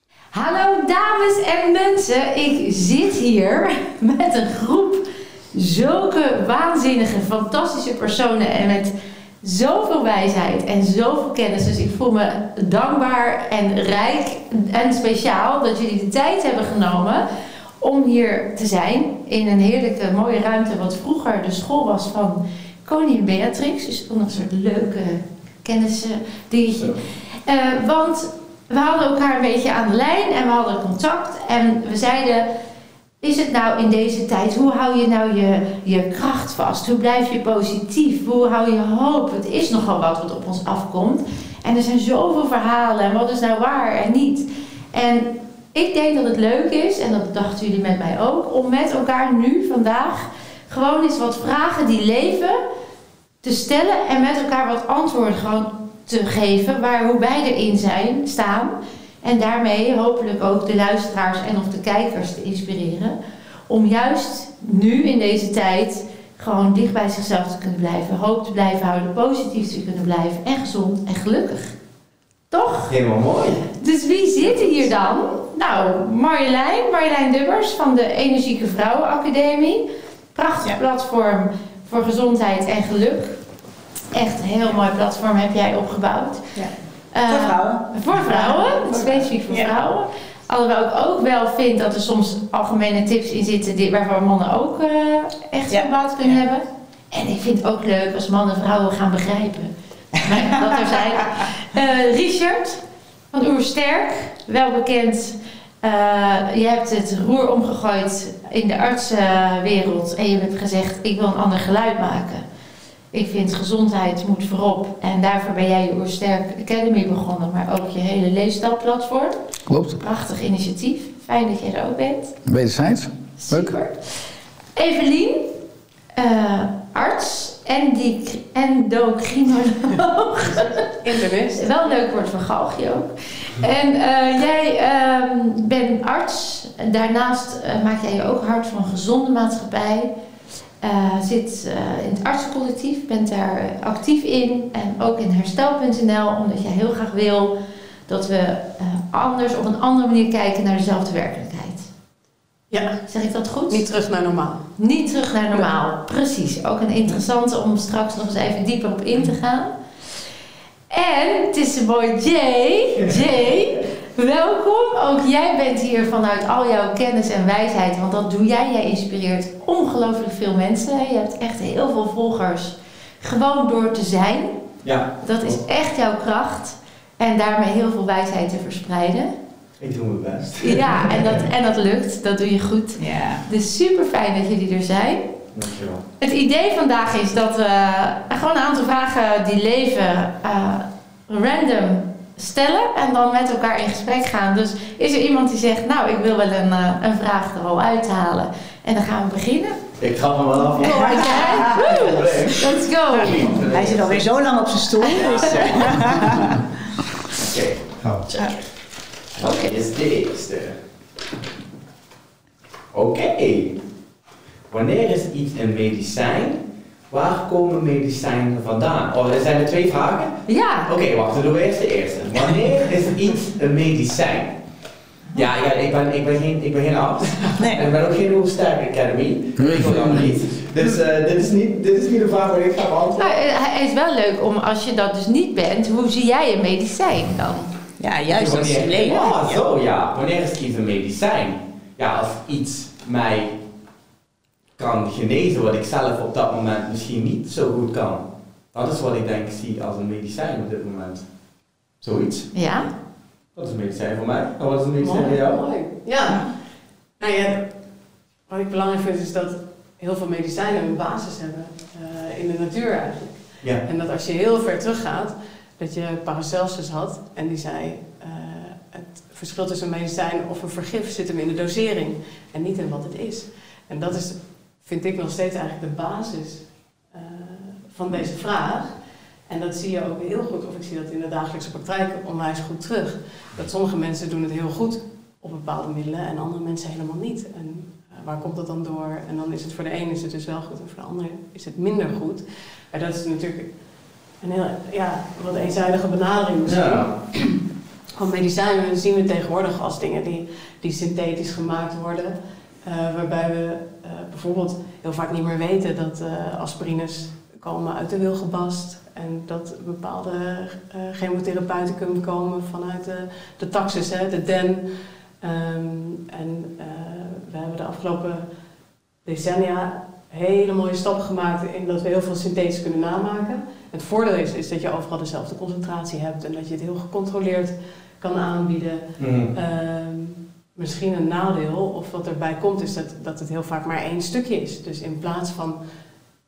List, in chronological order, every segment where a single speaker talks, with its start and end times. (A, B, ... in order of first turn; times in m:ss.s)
0:00.3-0:17.2 A
0:17.8-0:32.5 A
0:26.8-0:27.0 B
0:33.2-0:52.6 A
0:53.4-1:03.2 A
1:03.7-1:11.7 A
1:12.5-1:12.9 A
1:12.9-1:13.7 B
1:13.7-1:23.4 A
1:24.1-1:26.4 A
1:27.1-1:42.8 A
1:27.3-1:29.7 C
1:35.7-1:36.4 C
1:40.2-1:40.9 C
1:43.3-1:52.4 A
1:53.1-1:59.3 A
1:59.7-2:00.0 D
2:00.0-2:02.3 A
2:02.4-2:03.7 D
2:03.4-2:04.2 A
2:04.7-2:05.5 A
2:06.1-2:10.8 A
2:10.5-2:11.7 E
2:11.5-2:20.1 A
2:20.8-2:27.5 A
2:28.1-2:31.9 A
2:32.7-2:33.0 E
2:33.0-2:33.9 A
2:33.7-2:34.7 E
2:34.8-2:39.7 A
2:40.9-2:54.5 A
2:54.8-2:55.6 B
2:55.2-2:59.3 A
2:59.8-3:01.4 B
3:00.6-3:05.3 A
3:03.0-3:03.4 C
3:05.5-3:06.0 B
3:06.2-3:19.8 A
3:20.0-3:24.3 B
3:20.8-3:22.1 C
3:20.8-3:23.5 A
3:23.2-3:26.6 C
3:25.1-3:25.5 A
3:25.1-3:26.6 B
3:27.3-3:28.7 B
3:29.4-3:30.8 B
3:29.4-3:29.7 A
3:32.9-3:33.8 B
3:34.7-3:44.6 B
3:40.5-3:40.9 A
3:45.3-3:53.3 B
3:49.6-3:50.2 D
3:53.2-3:57.7 A
3:58.0-3:59.6 C
3:58.3-4:03.6 B
4:04.8-4:11.2 B
4:12.0-4:12.6 B
4:12.5-4:12.9 A
4:13.5-4:15.6 B
4:15.0-4:16.5 E
4:17.2-4:17.7 E
4:18.5-4:39.0 E
4:39.5-4:53.7 E
4:54.4-4:57.6 E
4:56.6-4:57.1 B
4:58.2-5:14.8 E
5:15.4-5:18.5 E
5:19.2-5:35.8 E
5:29.2-5:29.5 B